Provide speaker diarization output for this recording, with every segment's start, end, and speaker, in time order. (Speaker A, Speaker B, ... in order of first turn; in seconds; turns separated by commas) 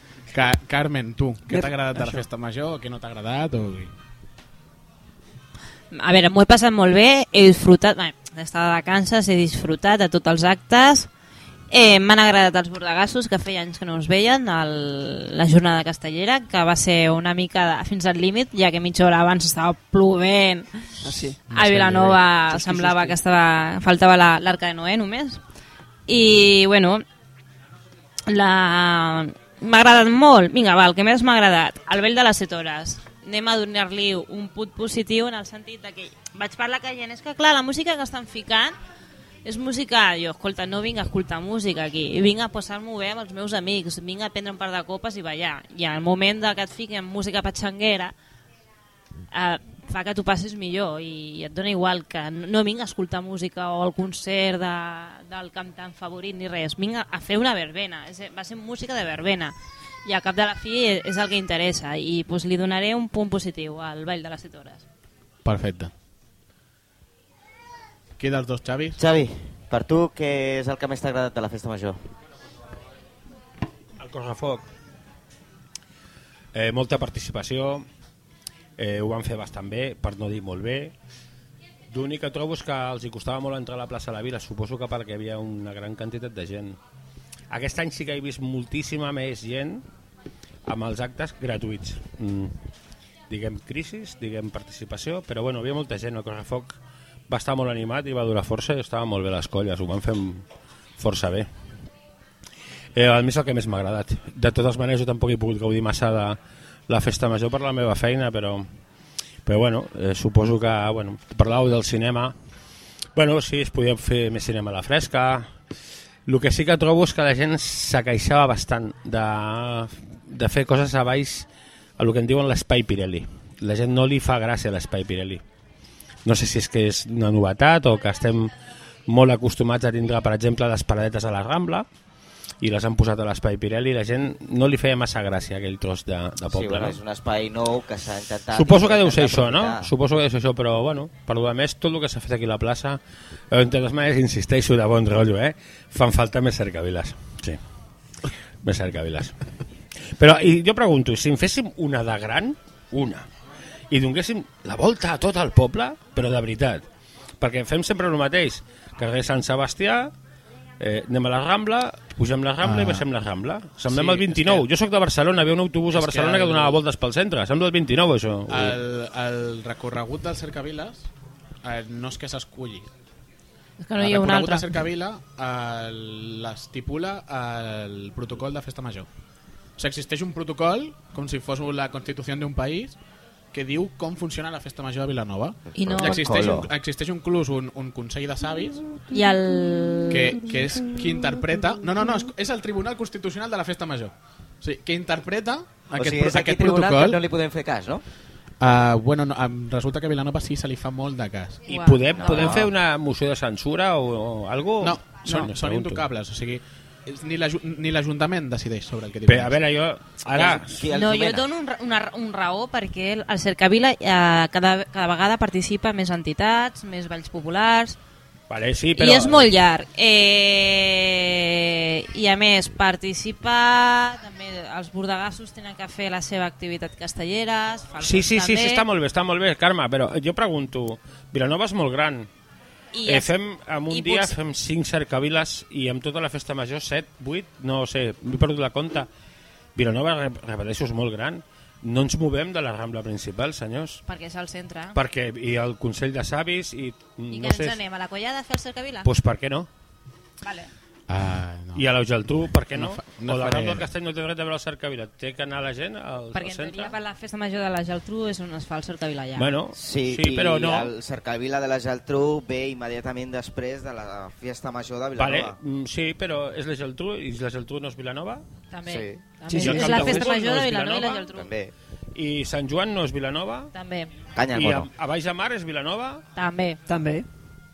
Speaker A: 0.3-3.9, Speaker B: 1.5-2.2, Speaker C: 5.9-11.1, Speaker C: 11.7-25.4, Speaker B: 21.0-21.5, Speaker A: 21.5-22.2, Speaker B: 22.5-23.1, Speaker C: 26.1-27.0, Speaker C: 28.3-38.8, Speaker C: 39.4-48.1, Speaker C: 49.3-64.8, Speaker A: 65.4-65.9, Speaker A: 68.2-69.0, Speaker D: 69.0-72.0, Speaker E: 74.0-74.7, Speaker E: 76.5-77.8, Speaker E: 78.8-80.9, Speaker E: 81.9-86.8, Speaker E: 87.5-89.8, Speaker E: 90.7-92.6, Speaker E: 93.3-96.8, Speaker E: 97.3-100.4, Speaker E: 101.0-101.5, Speaker E: 103.0-106.4, Speaker E: 106.9-108.7, Speaker E: 109.5-112.3, Speaker E: 113.1-115.5, Speaker E: 116.2-121.5, Speaker E: 122.0-125.4, Speaker E: 126.2-128.5, Speaker E: 129.1-131.8, Speaker E: 132.6-137.0, Speaker D: 136.5-139.9, Speaker E: 138.5-143.0, Speaker E: 143.5-147.6, Speaker E: 148.6-149.4, Speaker E: 150.2-153.3, Speaker E: 153.9-156.8, Speaker E: 157.4-160.1, Speaker E: 160.8-168.8, Speaker A: 162.6-163.1, Speaker A: 163.9-164.6, Speaker A: 165.9-166.8, Speaker A: 168.5-171.1, Speaker A: 171.6-172.9, Speaker C: 173.8-174.7, Speaker A: 174.0-179.1, Speaker A: 179.8-182.9, Speaker A: 183.5-188.8, Speaker D: 185.7-186.7, Speaker C: 185.8-186.5, Speaker C: 189.1-190.5, Speaker A: 190.1-197.2, Speaker D: 195.9-198.0, Speaker A: 198.6-201.6, Speaker E: 201.7-206.0, Speaker C: 201.7-202.4, Speaker D: 202.1-202.7, Speaker A: 204.8-209.6, Speaker E: 209.3-210.8, Speaker D: 210.3-211.4, Speaker C: 210.9-217.9, Speaker E: 218.5-219.5, Speaker C: 218.9-228.8, Speaker E: 228.0-232.3, Speaker C: 232.9-233.3, Speaker E: 233.1-239.1, Speaker C: 233.9-234.3, Speaker E: 239.8-244.0, Speaker C: 244.1-245.0, Speaker E: 244.9-247.8, Speaker C: 247.3-249.1, Speaker E: 249.0-249.7, Speaker C: 250.4-250.7, Speaker A: 251.1-251.8, Speaker E: 251.7-256.9, Speaker A: 252.7-253.9, Speaker C: 256.3-259.5, Speaker E: 259.4-260.9, Speaker D: 259.7-265.6, Speaker E: 265.2-268.4, Speaker C: 268.7-271.5, Speaker D: 268.9-269.2, Speaker B: 269.5-270.2, Speaker E: 269.6-271.3, Speaker D: 271.3-271.7, Speaker E: 272.1-273.7, Speaker C: 273.7-274.1, Speaker D: 274.3-274.9, Speaker E: 274.5-276.2, Speaker C: 276.4-276.8, Speaker B: 276.9-277.3